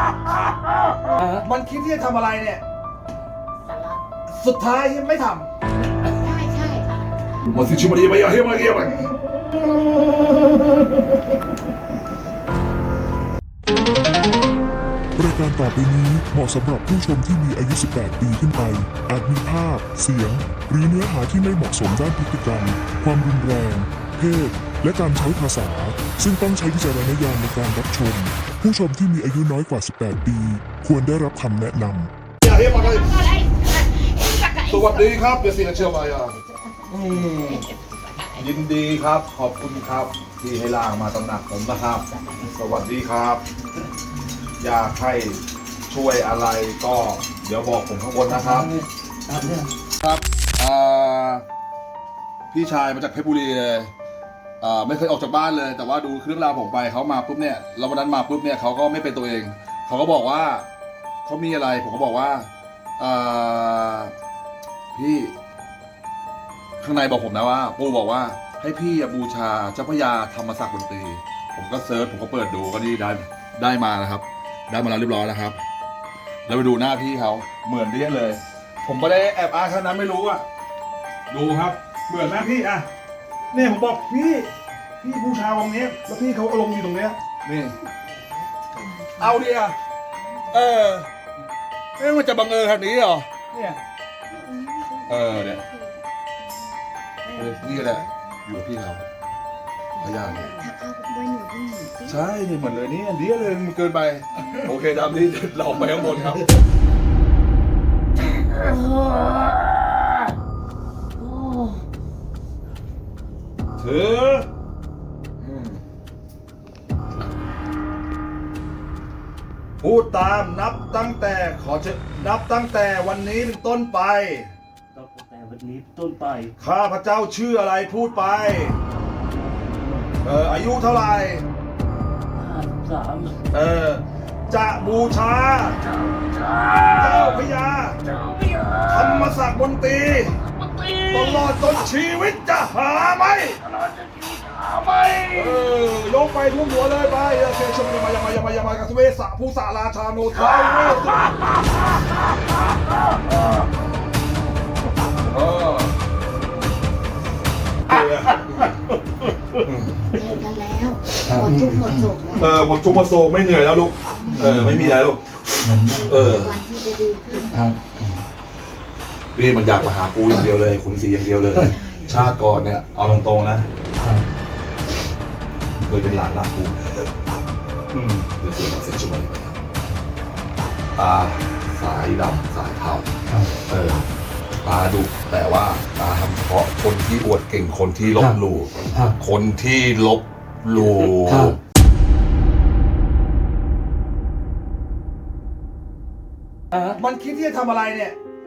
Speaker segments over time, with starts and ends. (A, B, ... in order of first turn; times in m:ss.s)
0:01.3-0:02.6 A
0:03.6-0:04.0 B
0:04.3-0:05.5 A
0:06.1-0:07.4 B
0:07.4-0:09.1 A
0:15.2-0:32.1 C
0:32.4-0:33.2 A
0:32.7-0:38.4 B
0:34.6-0:36.4 A
0:36.9-0:37.6 A
0:38.3-0:43.4 A
0:44.6-0:48.7 A
0:48.3-0:49.7 D
0:50.0-0:51.4 A
0:52.5-0:53.9 A
0:54.6-1:00.6 A
1:01.2-1:04.1 A
1:04.9-1:05.3 A
1:06.8-1:15.6 A
1:16.5-1:20.4 A
1:21.3-1:22.9 A
1:23.5-1:24.5 A
1:25.0-1:27.7 A
1:29.2-1:29.8 A
1:30.5-1:31.1 A
1:32.0-1:33.8 A
1:34.3-1:36.0 B
1:35.1-1:35.6 A
1:37.2-1:38.2 B
1:37.3-1:39.0 A
1:40.0-1:42.2 B
1:40.0-1:40.6 A
1:42.1-1:46.4 A
1:48.7-1:49.2 B
1:53.8-1:54.5 A
1:55.4-1:55.8 A
1:59.8-2:04.5 A
2:04.9-2:06.5 D
2:06.6-2:08.8 A
2:10.2-2:11.5 A
2:12.3-2:13.4 D
2:13.5-2:15.9 A
2:16.8-2:18.0 A
2:18.8-2:20.4 A
2:21.0-2:23.6 A
2:24.2-2:25.1 D
2:25.2-2:31.4 A
2:35.2-2:35.9 A
2:37.9-2:38.8 A
2:39.6-2:40.1 A
2:40.1-2:42.5 B
2:41.3-2:42.0 D
2:42.3-2:46.6 A
2:44.1-2:44.6 B
2:44.4-2:44.9 D
2:45.6-2:46.4 D
2:46.2-2:47.7 B
2:47.5-2:48.2 D
2:49.3-2:53.7 A
2:51.7-2:52.0 B
2:55.8-2:57.0 A
2:57.9-2:58.2 D
2:58.2-2:59.6 A
3:00.9-3:04.1 A
3:04.6-3:11.6 A
3:11.3-3:11.5 D
3:16.8-3:18.2 A